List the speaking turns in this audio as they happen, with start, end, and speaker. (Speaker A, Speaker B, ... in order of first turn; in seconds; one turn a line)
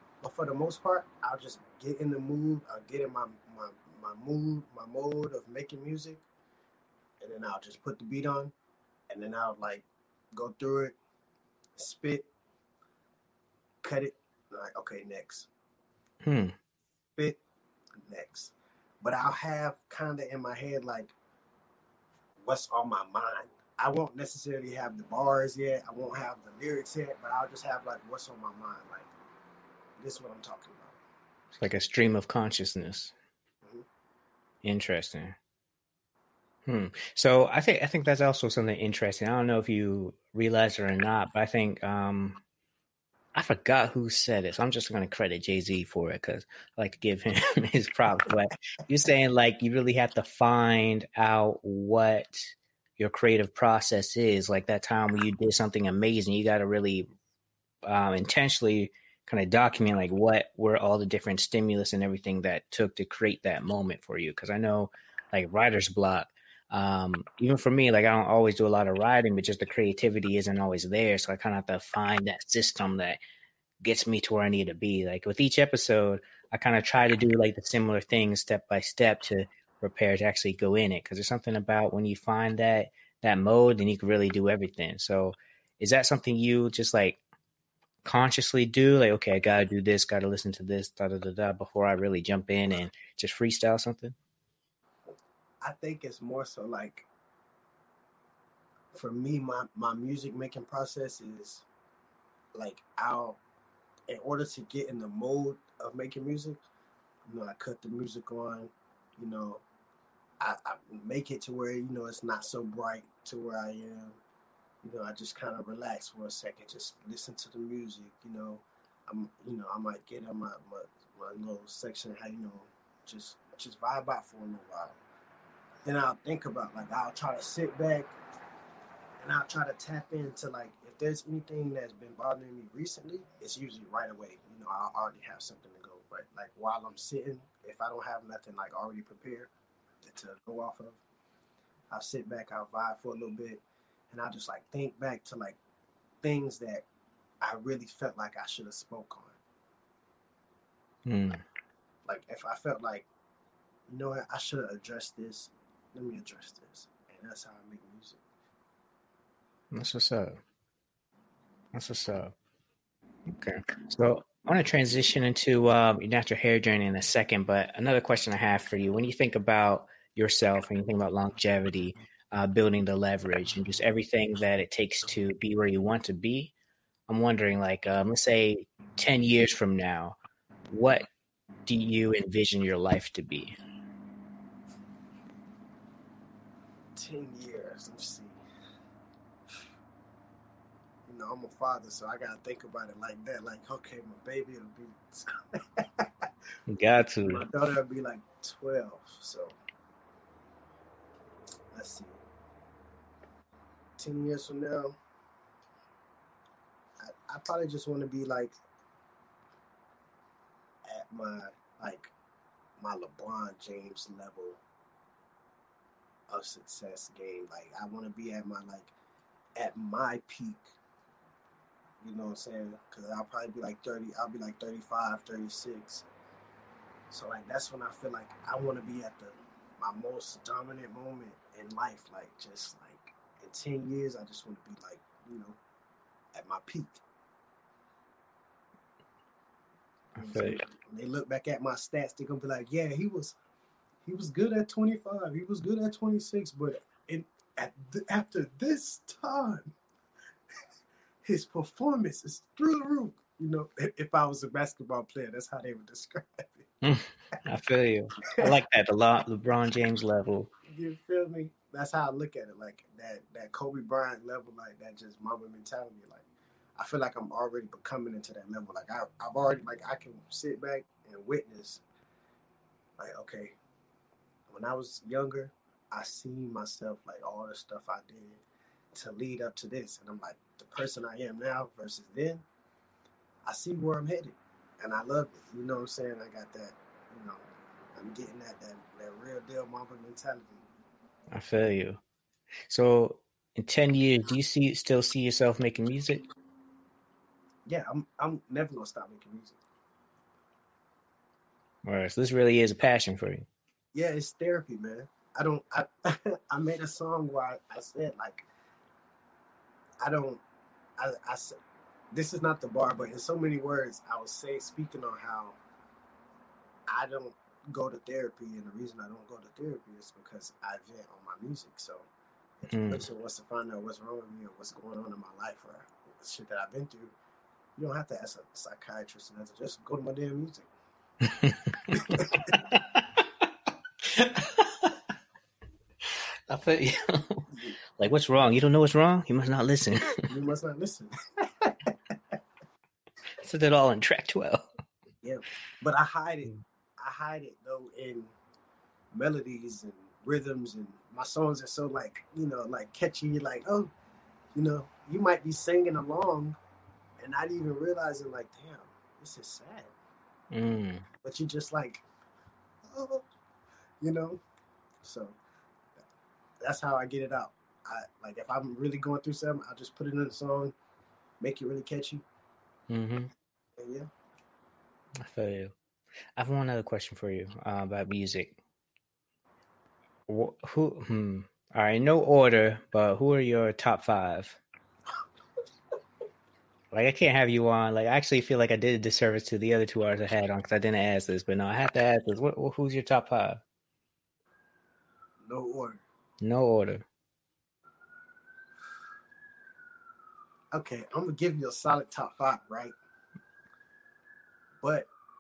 Speaker A: 0.2-6.2
Speaker A: 7.2-8.5
Speaker A: 9.1-11.0
Speaker A: 11.8-12.3
Speaker A: 13.8-15.5
Speaker B: 16.2-16.6
Speaker A: 18.0-21.1
Speaker A: 22.4-29.1
Speaker A: 30.0-31.0
Speaker B: 31.5-33.1
Speaker B: 34.6-35.4
Speaker B: 36.6-42.4
Speaker B: 43.4-57.1
Speaker B: 57.9-73.2
Speaker B: 73.8-87.2
Speaker B: 88.0-94.2
Speaker A: 95.6-97.1
Speaker A: 98.9-101.7
Speaker A: 102.5-103.4
Speaker A: 104.1-106.6
Speaker A: 107.3-109.6
Speaker A: 110.4-114.2
Speaker A: 114.8-125.0
Speaker A: 125.8-128.1
Speaker A: 129.2-139.5
Speaker A: 140.0-141.0
Speaker A: 141.9-145.6
Speaker A: 146.2-146.8
Speaker A: 147.4-149.4
Speaker B: 151.1-151.4
Speaker A: 152.1-153.1
Speaker A: 153.9-158.2
Speaker B: 159.7-160.4
Speaker B: 161.7-162.3
Speaker B: 163.3-176.5
Speaker B: 177.1-180.2
Speaker B: 180.7-181.1
Speaker B: 181.7-183.5
Speaker A: 187.0-188.4
Speaker A: 191.1-196.3
Speaker B: 196.7-197.4
Speaker A: 197.2-199.6
Speaker A: 201.7-202.2
Speaker A: 204.0-205.0
Speaker A: 207.0-208.6
Speaker A: 210.8-212.1
Speaker A: 212.8-214.6
Speaker A: 216.3-218.9
Speaker A: 219.6-220.8
Speaker A: 222.0-226.1
Speaker A: 227.1-235.6
Speaker A: 236.3-237.0
Speaker A: 240.2-243.4
Speaker B: 240.2-240.6
Speaker A: 244.1-249.7
Speaker A: 251.2-256.7
Speaker B: 256.8-260.5
Speaker A: 260.7-266.2
Speaker A: 266.8-271.8
Speaker A: 273.0-273.6
Speaker A: 274.5-278.4
Speaker A: 278.9-282.4
Speaker A: 283.4-287.4
Speaker A: 287.9-290.6
Speaker B: 291.3-292.0
Speaker B: 292.7-296.2
Speaker A: 297.7-299.6
Speaker B: 301.8-303.5
Speaker A: 303.9-308.5
Speaker A: 310.0-310.4
Speaker A: 311.0-311.6
Speaker A: 312.1-315.6
Speaker A: 316.9-322.1
Speaker A: 322.6-327.1
Speaker B: 322.7-323.0
Speaker A: 327.8-330.7
Speaker B: 331.2-333.2
Speaker A: 331.9-332.5
Speaker B: 334.0-335.0
Speaker B: 336.0-340.3
Speaker A: 337.5-337.8
Speaker A: 340.3-342.1
Speaker B: 343.4-344.7
Speaker A: 345.2-348.3
Speaker A: 349.1-353.9
Speaker A: 354.5-356.6
Speaker A: 357.2-359.9
Speaker B: 360.5-361.1
Speaker A: 361.2-362.0
Speaker A: 362.9-363.3
Speaker A: 364.0-364.4
Speaker A: 365.0-365.4
Speaker A: 366.6-370.8
Speaker A: 371.4-372.2
Speaker B: 372.9-373.3
Speaker A: 373.8-374.1
Speaker B: 375.2-375.8
Speaker B: 376.4-378.6
Speaker B: 380.3-384.6
Speaker B: 386.9-393.6
Speaker A: 395.4-396.0
Speaker B: 396.4-397.0
Speaker A: 400.7-402.9
Speaker A: 404.8-405.1